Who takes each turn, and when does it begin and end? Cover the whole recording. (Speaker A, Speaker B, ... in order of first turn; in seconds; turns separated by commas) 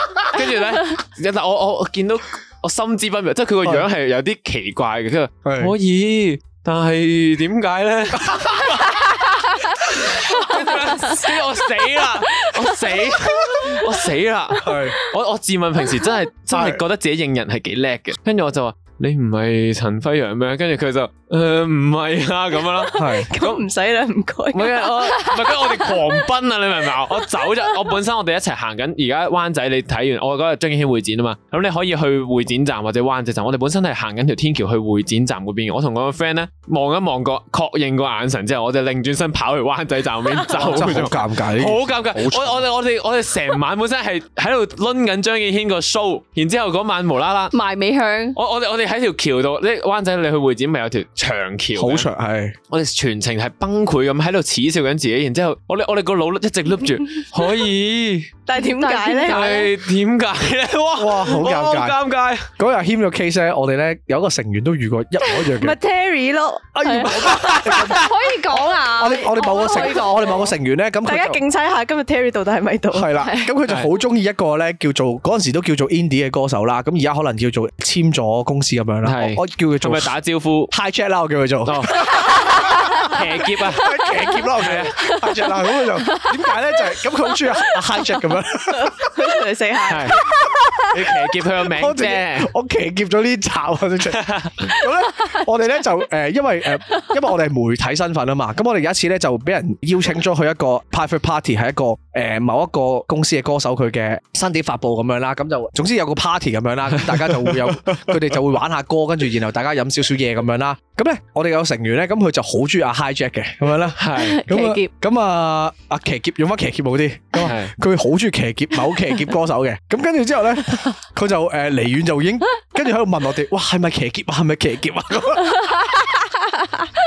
Speaker A: 0.3-9.1, Speaker B: 5.5-5.7, Speaker B: 8.1-9.0, Speaker A: 9.7-23.6, Speaker B: 14.6-15.0, Speaker B: 16.5-16.8, Speaker C: 22.8-25.9, Speaker B: 22.9-23.3, Speaker A: 24.5-47.5, Speaker B: 40.5-42.6, Speaker D: 47.5-48.4, Speaker A: 48.4-52.1, Speaker B: 51.8-52.5, Speaker A: 52.7-58.3, Speaker C: 58.5-59.7, Speaker D: 58.6-59.6, Speaker A: 59.2-62.5, Speaker B: 61.0-62.0, Speaker B: 62.6-65.8, Speaker C: 65.4-67.5, Speaker B: 66.8-71.4, Speaker D: 66.8-70.3, Speaker A: 67.3-67.6, Speaker C: 69.7-70.4, Speaker C: 71.0-73.5, Speaker B: 72.9-80.1, Speaker A: 79.0-80.7, Speaker B: 80.7-89.1, Speaker A: 81.6-84.0, Speaker A: 84.6-85.0, Speaker D: 85.0-85.3, Speaker D: 85.9-86.3, Speaker C: 88.7-90.5, Speaker A: 89.8-90.2, Speaker B: 90.2-126.1, Speaker A: 90.9-92.5, Speaker A: 94.1-94.8, Speaker A: 107.1-108.0, Speaker A: 114.0-114.4, Speaker D: 114.2-114.9, Speaker A: 117.4-117.7